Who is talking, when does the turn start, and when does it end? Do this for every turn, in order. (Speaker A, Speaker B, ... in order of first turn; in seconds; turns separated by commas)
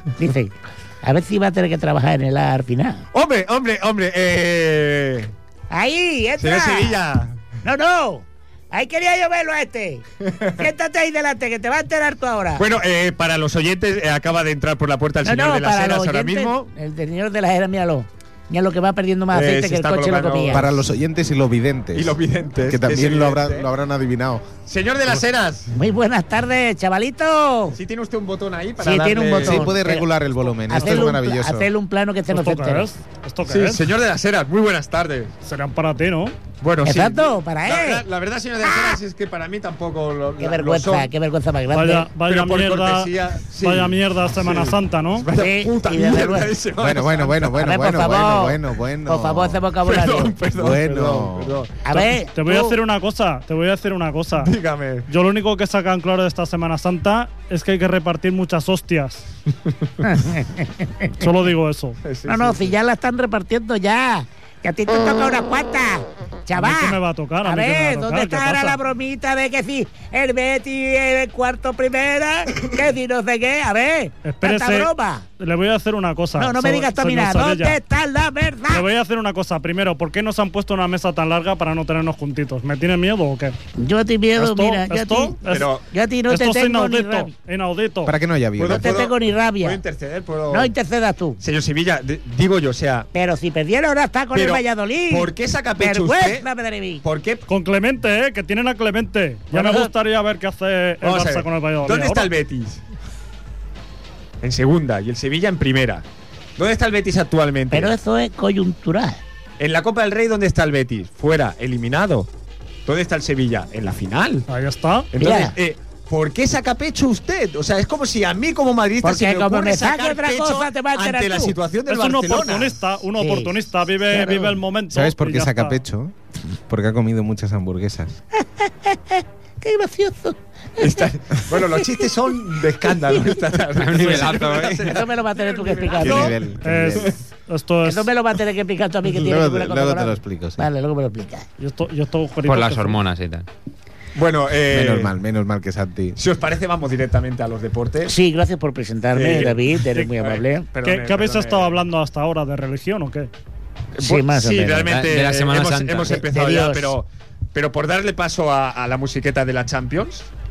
Speaker A: 0.2-3.0, Speaker B: 3.1-5.3, Speaker A: 5.7-7.0, Speaker B: 6.4-7.4, Speaker A: 7.6-12.6, Speaker B: 12.6-16.7, Speaker A: 15.2-20.7, Speaker B: 19.3-20.8, Speaker C: 20.5-24.4, Speaker B: 21.9-23.7, Speaker B: 24.7-25.7, Speaker A: 25.7-27.8, Speaker B: 27.7-29.7, Speaker A: 28.8-30.1, Speaker C: 29.4-31.7, Speaker A: 30.7-32.9, Speaker D: 30.8-31.1, Speaker D: 32.3-33.9, Speaker B: 33.4-35.3, Speaker D: 35.4-36.4, Speaker B: 36.6-41.1, Speaker A: 36.8-38.0, Speaker A: 40.4-42.1, Speaker D: 41.7-45.3, Speaker B: 42.2-47.6, Speaker A: 45.3-46.5, Speaker C: 46.8-49.6, Speaker A: 47.5-50.3, Speaker B: 49.8-51.9, Speaker C: 50.5-51.6, Speaker A: 51.8-52.8, Speaker D: 52.3-54.5, Speaker B: 54.4-55.1, Speaker D: 55.1-59.2, Speaker A: 60.0-61.2, Speaker D: 61.2-62.0, Speaker B: 62.0-62.7, Speaker A: 62.2-75.2, Speaker D: 66.6-68.8, Speaker D: 74.2-77.8, Speaker A: 76.4-78.8, Speaker D: 78.7-83.5, Speaker A: 83.8-85.4, Speaker D: 84.3-85.7, Speaker B: 85.5-85.8, Speaker A: 85.9-87.3, Speaker D: 86.3-88.1, Speaker C: 88.0-89.0, Speaker B: 88.5-90.7, Speaker A: 88.6-89.8, Speaker A: 90.5-91.4, Speaker B: 91.4-93.1, Speaker A: 93.1-97.0, Speaker B: 94.3-96.5, Speaker B: 97.0-97.5, Speaker D: 97.5-102.3, Speaker B: 101.0-102.8, Speaker B: 104.4-106.0, Speaker B: 106.6-107.9, Speaker A: 107.7-109.2, Speaker B: 109.6-112.3, Speaker B: 112.8-114.5, Speaker D: 114.5-115.1, Speaker B: 115.1-122.8, Speaker A: 115.2-115.5, Speaker A: 119.0-121.5, Speaker D: 121.9-125.8, Speaker A: 123.2-123.5, Speaker A: 124.1-124.5, Speaker C: 124.9-126.2, Speaker C: 126.7-128.1, Speaker A: 128.4-131.0, Speaker B: 130.8-136.5, Speaker A: 131.6-131.9, Speaker E: 133.7-134.9, Speaker A: 134.8-136.3, Speaker C: 136.0-137.1, Speaker D: 136.6-138.1, Speaker A: 137.8-141.4, Speaker C: 139.1-140.6, Speaker D: 141.6-143.0, Speaker E: 142.4-143.5, Speaker B: 144.1-145.1, Speaker C: 144.7-146.2, Speaker B: 146.2-148.1, Speaker A: 148.1-150.7, Speaker B: 149.1-151.8, Speaker D: 150.8-153.3, Speaker B: 154.0-160.3, Speaker A: 154.0-154.9, Speaker E: 154.8-156.2, Speaker A: 156.1-156.9